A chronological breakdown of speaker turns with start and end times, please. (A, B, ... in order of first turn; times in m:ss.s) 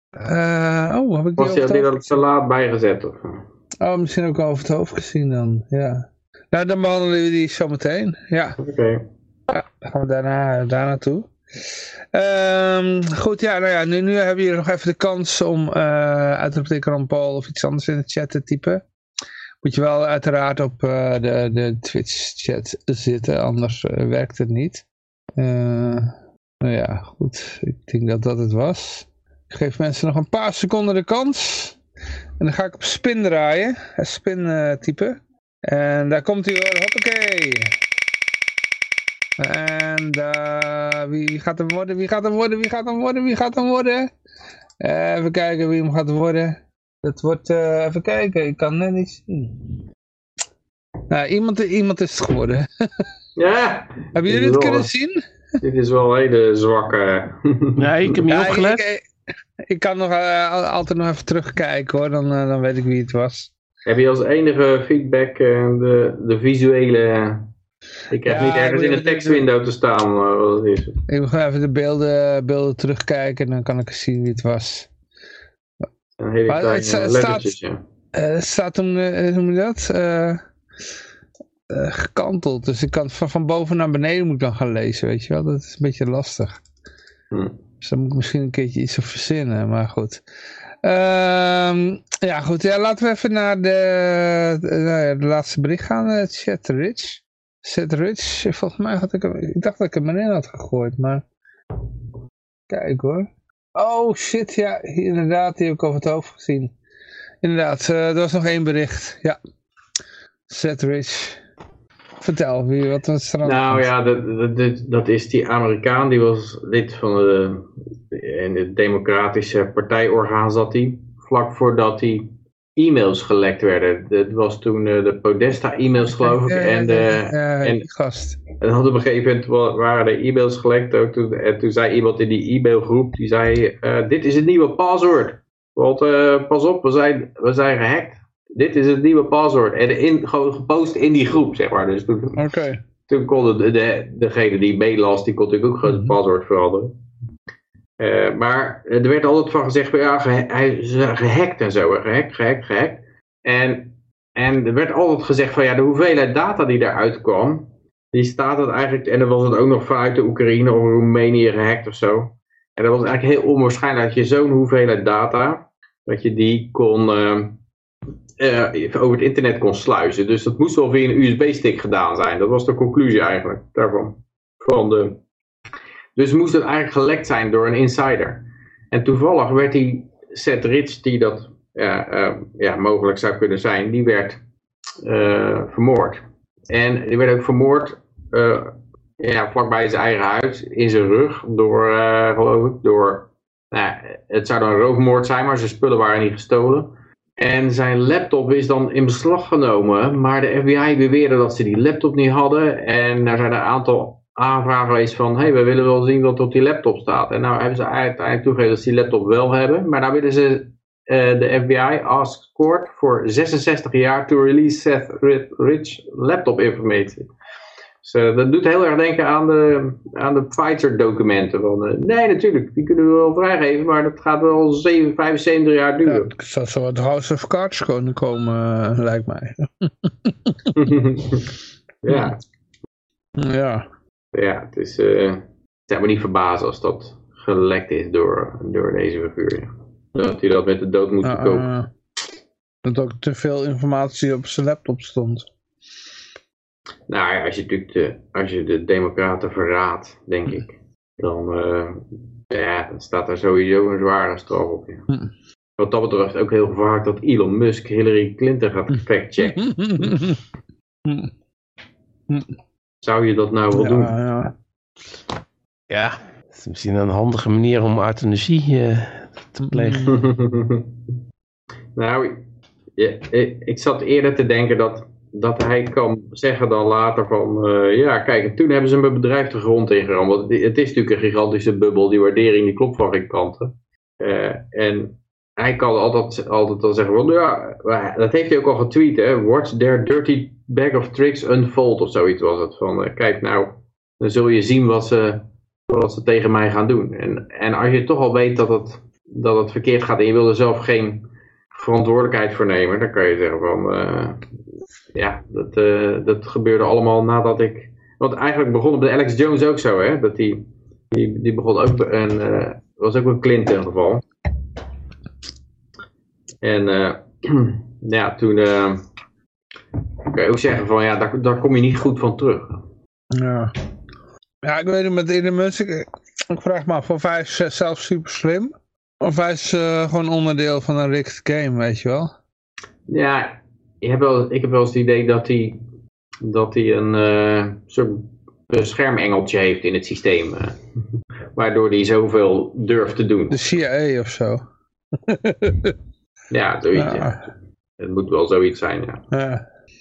0:00.2-0:02.2 A
0:01.4-0:03.4 B
0:03.8-0:08.6 A
0:08.6-0:09.0 B
0:09.5-0:11.3 A
0:12.1-0:18.8 A
0:19.6-0:24.8 A
0:25.4-0:31.8 A
0:32.4-0:37.8 A
0:39.4-0:44.1 A
0:44.8-0:49.7 A
0:51.1-0:53.1 A
0:53.4-0:54.9 B
0:54.2-0:55.2 A
0:55.6-0:57.8 B
0:57.8-0:58.8 C
0:58.3-0:59.1 A
0:59.6-1:03.5 A
1:03.8-1:07.5 B
1:08.1-1:11.0 B
1:08.3-1:09.5 A
1:11.1-1:14.9 A
1:16.2-1:17.8 B
1:16.5-1:17.5 A
1:18.1-1:20.4 A
1:21.7-1:26.6 A
1:27.8-1:30.2 A
1:30.8-1:41.2 A
1:42.7-1:46.7 A
1:47.4-1:49.4 A
1:50.5-1:51.4 A
1:52.2-1:53.9 A
1:53.4-2:07.8 B
2:06.1-2:08.4 A
2:08.6-2:22.5 B
2:22.4-2:22.8 A
2:23.1-2:26.9 B
2:25.9-2:26.2 A
2:28.0-2:47.6 B
2:48.4-2:55.2 B
2:56.2-3:04.4 B
3:05.0-3:37.3 B
3:38.0-3:46.3 B
3:46.0-3:50.7 A
3:50.7-3:51.5 B
3:52.0-3:52.4 B
3:52.1-3:52.3 A
3:53.4-3:53.8 A
3:54.3-4:01.7 B
4:01.2-4:01.9 A
4:02.8-4:05.5 A
4:07.1-4:15.0 B
4:15.8-4:19.7 B
4:19.5-4:20.4 A
4:21.1-4:21.3 A
4:22.3-4:22.6 A
4:23.0-4:24.2 B
4:23.7-4:24.5 A
4:25.9-4:30.2 C
4:29.7-4:30.2 A
4:30.0-4:30.9 B
4:32.0-4:32.4 B
4:33.0-5:04.4 B
5:05.1-5:14.2 B
5:16.6-5:19.0 B
5:20.3-5:22.8 B
5:23.3-5:23.7 A
5:24.6-5:32.3 A
5:33.1-5:35.8 B
5:36.4-5:40.8 B
5:41.6-5:43.7 B
5:43.5-5:44.6 A
5:45.2-5:46.0 A
5:46.5-5:49.2 B
5:47.0-5:47.4 A
5:49.3-5:49.6 A